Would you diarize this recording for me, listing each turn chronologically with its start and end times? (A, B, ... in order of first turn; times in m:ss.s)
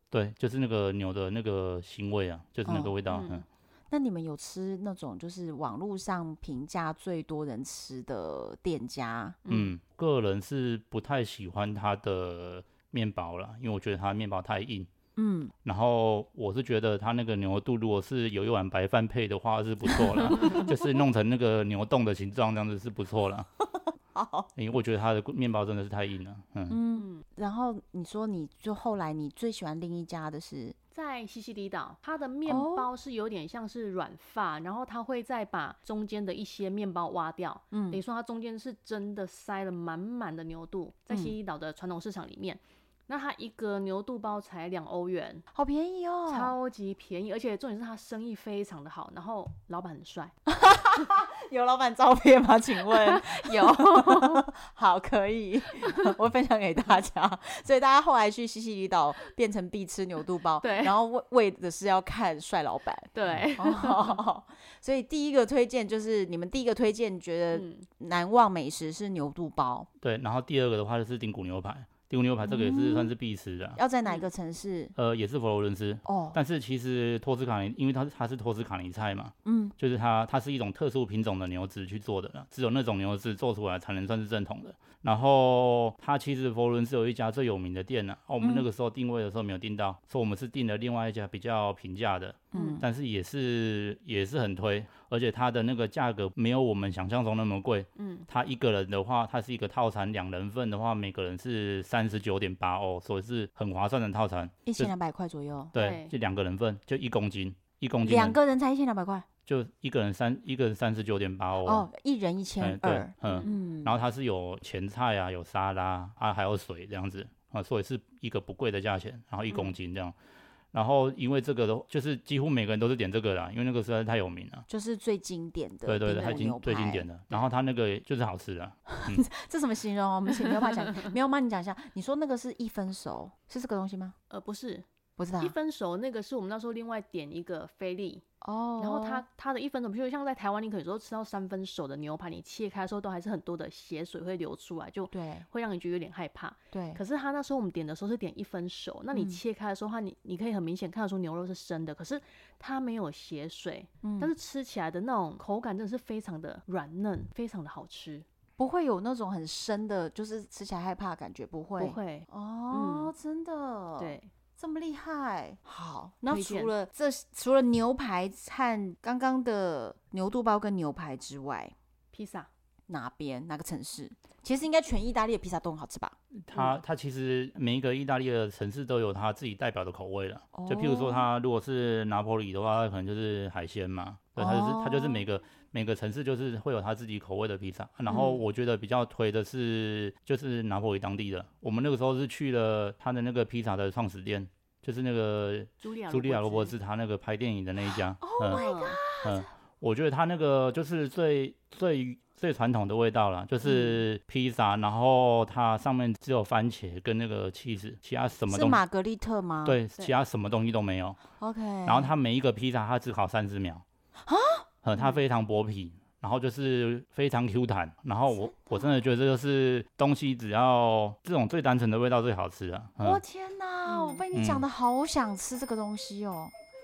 0:00.1-0:03.4 A
0:02.6-0:03.0 B
0:03.1-0:03.4 C
0:03.9-0:09.4 B
0:09.4-0:09.7 C
0:09.5-0:14.9 A
0:15.2-0:15.5 B
0:15.6-0:23.5 A
0:24.1-0:24.5 B
0:24.6-0:26.8 A
0:26.7-0:30.8 B
0:26.9-0:27.2 C
0:30.9-0:45.4 C
0:32.5-0:32.9 B
0:37.7-0:38.0 B
0:45.5-0:46.5 B
0:46.3-0:50.3 C
0:50.5-1:09.9 B
0:52.8-0:54.4 C
1:00.6-1:00.9 C
1:03.1-1:04.2 C
1:07.5-1:07.8 C
1:10.0-1:13.8 A
1:12.4-1:13.1 B
1:13.8-1:14.9 B
1:15.0-1:44.9 A
1:16.0-1:16.4 B
1:19.4-1:19.7 B
1:28.4-1:28.6 B
1:32.5-1:32.8 B
1:32.5-1:32.8 C
1:38.0-1:38.3 C
1:44.6-1:45.7 B
1:45.7-1:48.4 A
1:45.7-1:46.1 C
1:48.0-1:49.2 B
1:49.4-1:51.9 A
1:51.6-1:53.9 B
1:52.6-2:00.1 A
1:53.2-1:53.5 C
2:00.7-2:04.6 A
2:04.7-2:07.1 B
2:05.9-2:09.2 A
2:06.1-2:06.4 C
2:08.9-2:14.1 B
2:10.4-2:11.1 C
2:14.3-2:14.8 C
2:15.2-2:15.5 B
2:15.4-2:18.2 C
2:18.4-2:19.2 B
2:18.8-2:38.2 C
2:25.1-2:25.4 B
2:26.7-2:27.0 B
2:29.1-2:29.4 B
2:34.0-2:34.3 B
2:38.6-2:51.7 B
2:41.8-2:43.1 C
2:44.0-2:44.3 C
2:46.3-2:46.7 C
2:52.1-2:52.5 C
2:52.9-2:56.7 B
2:56.4-3:18.6 A
3:00.5-3:01.3 B
3:04.4-3:05.2 B
3:08.1-3:08.4 B
3:15.8-3:16.7 C
3:18.2-3:19.5 B
3:18.5-3:19.0 C
3:19.2-3:28.8 A
3:23.6-3:24.0 B
3:28.5-3:29.8 B
3:29.6-3:31.2 A
3:31.4-3:32.1 B
3:31.8-3:33.8 A
3:34.2-3:34.7 B
3:34.8-3:43.2 A
3:38.3-3:38.9 B
3:43.0-3:46.5 B
3:43.9-3:44.2 C
3:44.3-3:44.6 A